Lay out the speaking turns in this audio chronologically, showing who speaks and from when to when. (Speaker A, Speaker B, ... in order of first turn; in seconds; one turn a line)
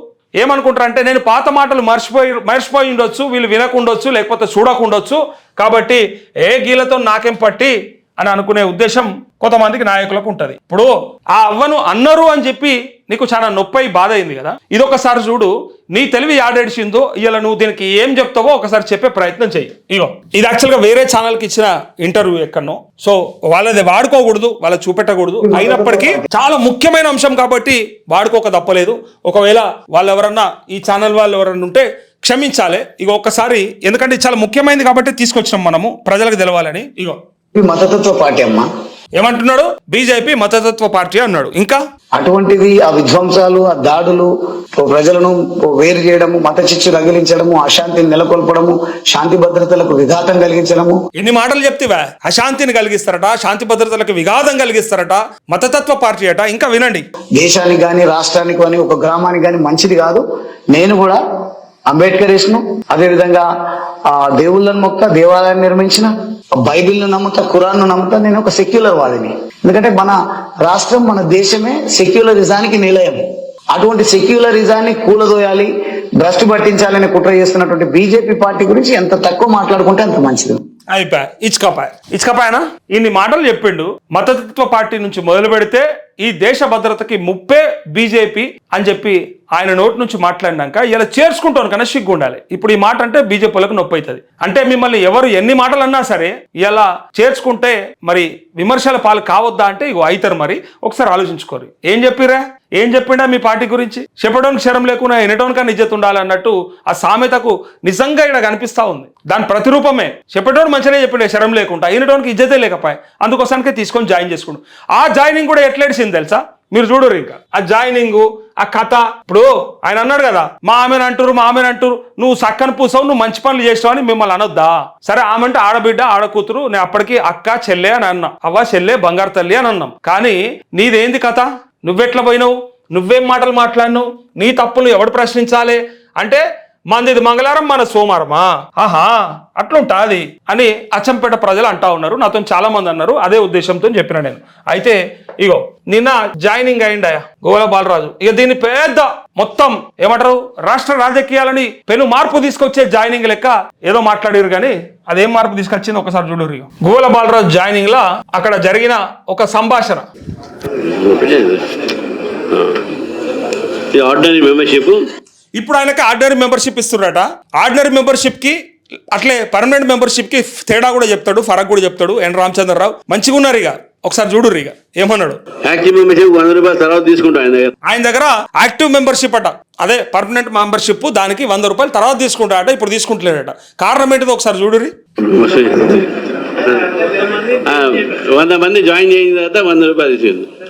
Speaker A: 0.4-37.2
Speaker B: 25.4-26.3
Speaker B: 37.5-38.7
Speaker A: 39.2-41.8
Speaker B: 42.1-51.0
Speaker A: 51.2-57.0
Speaker B: 57.4-61.2
Speaker B: 61.9-63.5
Speaker B: 64.1-73.2
Speaker B: 73.7-80.6
Speaker A: 80.9-160.1
Speaker C: 160.8-161.8
Speaker C: 162.5-162.8
Speaker C: 163.9-165.1
Speaker A: 165.6-168.6
Speaker A: 169.1-175.4
Speaker C: 175.7-177.7
Speaker A: 177.8-184.9
Speaker C: 185.2-190.5